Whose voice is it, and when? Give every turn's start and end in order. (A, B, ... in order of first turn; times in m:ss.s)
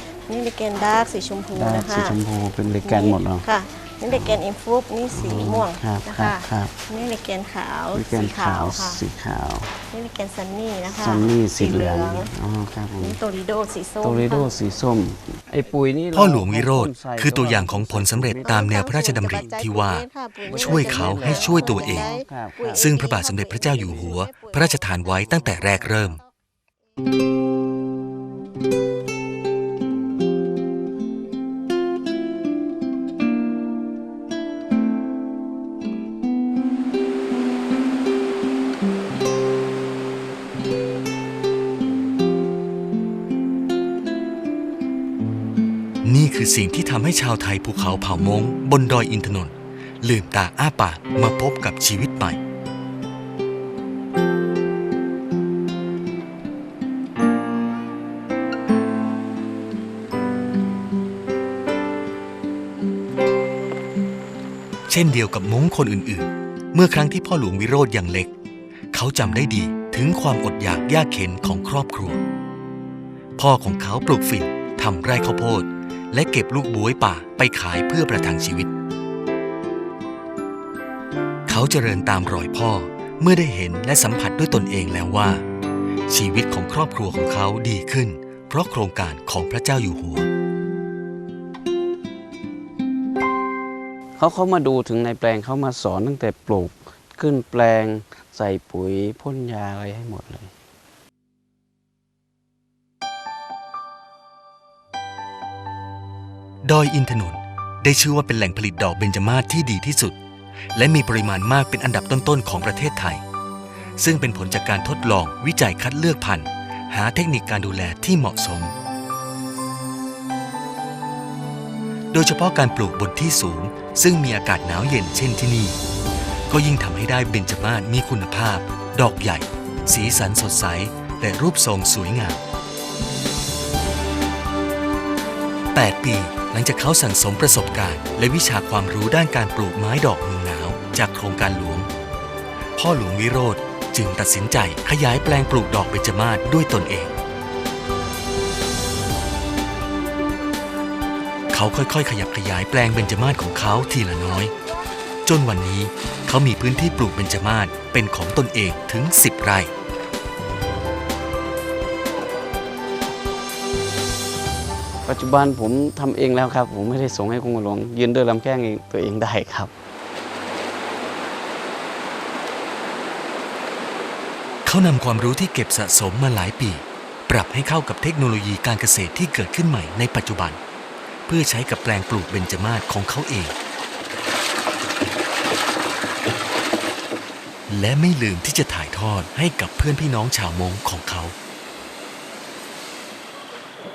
0:00.3-0:02.2 A
0:01.5-0:03.5 B
0:02.8-0:09.0 A
0:04.1-0:04.4 B
0:05.1-0:06.8 B
0:07.9-0:09.8 B
0:09.9-0:12.3 A
0:10.8-0:13.2 B
0:13.0-0:14.5 A
0:14.0-0:19.6 B
0:16.1-0:22.1 C
0:18.4-0:26.2 A
0:20.4-0:23.0 B
0:22.8-0:26.2 C
0:23.7-0:24.1 B
0:46.0-0:52.4 C
1:04.9-1:08.3 C
1:08.9-1:12.2 C
1:13.4-1:18.7 C
1:21.5-1:25.4 C
1:26.1-1:30.3 C
1:34.2-1:40.5 B
1:46.6-1:50.2 C
1:50.7-1:53.2 C
1:54.0-1:58.7 C
2:02.1-2:05.8 C
2:06.5-2:12.4 C
2:15.7-2:21.9 C
2:22.8-2:27.1 C
2:31.5-2:34.5 C
2:35.2-2:39.7 C
2:45.0-2:49.7 B
2:54.6-3:00.6 C
3:01.3-3:03.6 C
3:07.7-3:11.3 C